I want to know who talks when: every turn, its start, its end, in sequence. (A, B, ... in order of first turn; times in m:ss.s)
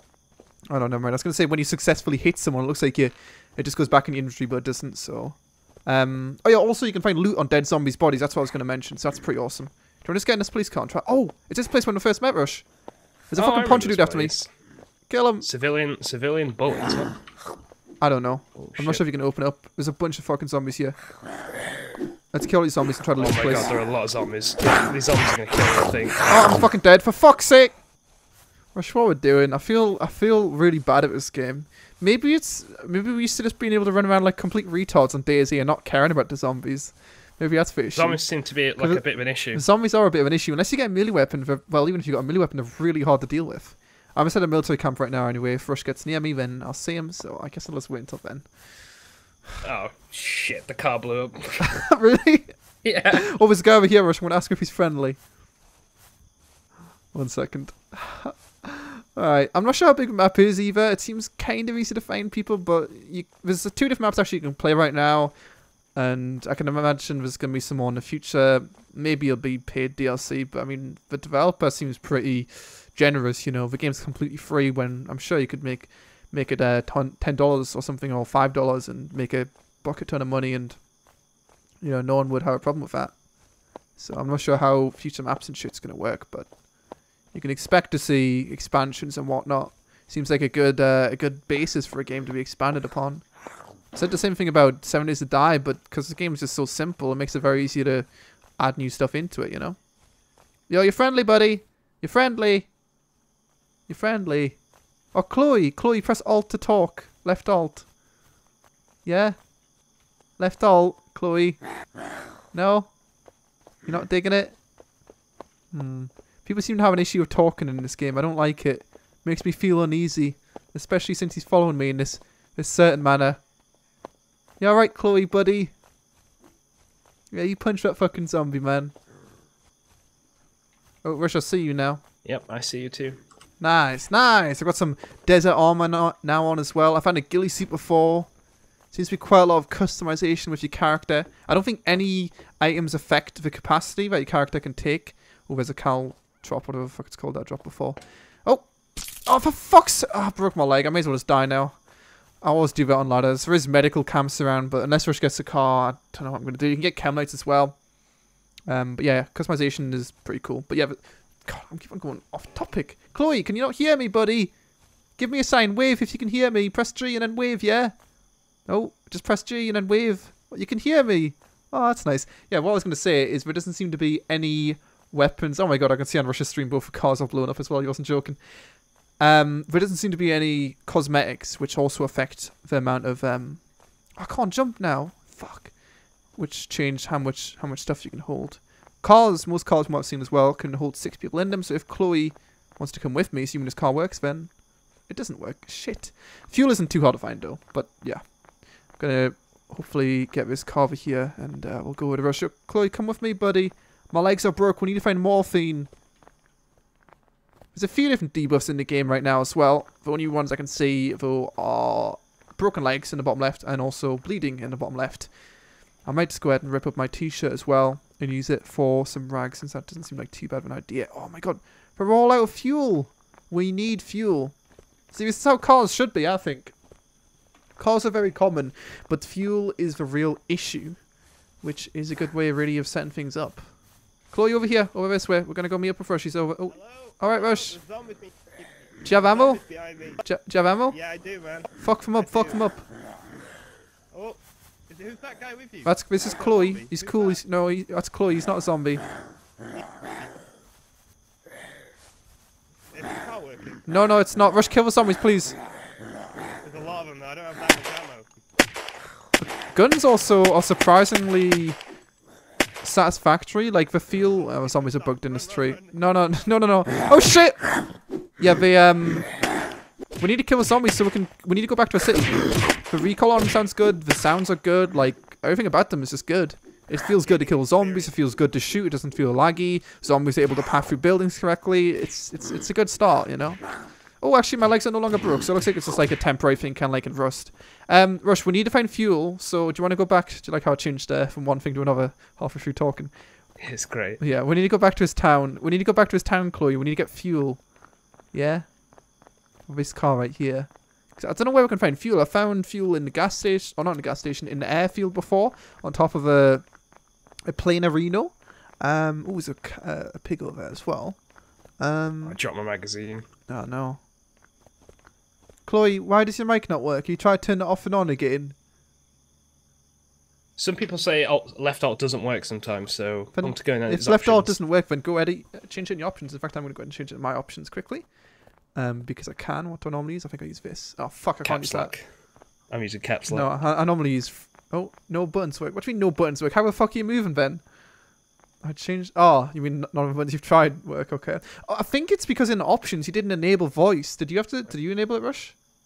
0:00.7-0:12.7 A
0:13.3-0:14.4 A
0:13.4-0:14.5 B
0:15.1-0:15.5 A
0:15.4-0:17.2 B
0:18.0-0:21.0 A
0:18.6-0:19.0 B
0:22.3-0:23.7 A
0:23.2-0:26.3 B
0:26.3-0:27.8 A
0:28.7-0:48.5 A
0:37.9-0:39.6 B
0:49.6-0:51.8 B
0:51.6-0:52.6 A
0:52.8-0:53.3 B
0:53.1-0:55.2 A
0:57.1-1:05.3 A
1:05.9-1:20.9 A
1:21.8-1:23.2 A
1:23.9-1:26.6 A
1:27.3-1:33.3 A
1:33.9-1:39.8 A
1:40.7-1:42.7 A
1:43.9-1:44.6 A
1:45.1-1:47.9 A
1:49.0-1:49.5 A
1:50.4-1:51.6 A
1:52.5-1:53.0 A
1:53.8-1:54.6 A
1:55.7-2:03.4 A
2:04.6-2:05.7 A
2:07.3-2:08.9 A
2:11.0-2:12.0 A
2:12.2-2:13.2 B
2:13.6-2:18.3 A
2:18.9-2:31.9 A
2:32.4-2:37.8 A
2:38.7-2:44.5 A
2:45.2-2:48.0 A
2:48.7-2:58.4 A
2:59.2-3:05.8 A
3:06.3-3:25.9 A
3:27.7-3:35.3 A
3:36.0-3:44.6 A
3:45.1-3:46.8 A
3:47.8-3:51.0 A
3:51.6-3:53.7 A
3:54.3-3:57.8 A
3:56.7-4:00.2 C
3:59.0-3:59.6 A
4:00.2-4:01.0 A
4:00.9-4:02.7 C
4:01.8-4:02.8 A
4:04.1-4:07.4 C
4:05.8-4:09.0 A
4:09.7-4:10.4 C
4:12.9-4:13.9 C
4:13.9-4:15.6 A
4:16.6-4:18.3 C
4:19.4-4:21.8 A
4:22.8-4:27.8 A
4:24.3-4:26.2 C
4:28.4-4:29.3 A
4:30.2-4:53.2 A
4:37.2-4:38.2 C
4:53.6-4:54.2 B
4:54.2-4:57.7 A
4:58.3-4:58.7 A
4:59.7-5:06.7 A
5:07.5-5:11.2 A
5:11.8-5:12.4 A
5:12.2-5:13.2 B
5:13.5-5:14.0 A
5:15.7-5:18.5 A
5:20.6-5:24.6 B
5:23.4-5:28.1 A
5:28.8-5:31.9 A
5:31.4-5:32.1 B
5:32.7-5:33.5 B
5:33.3-5:37.6 A
5:38.6-5:45.6 A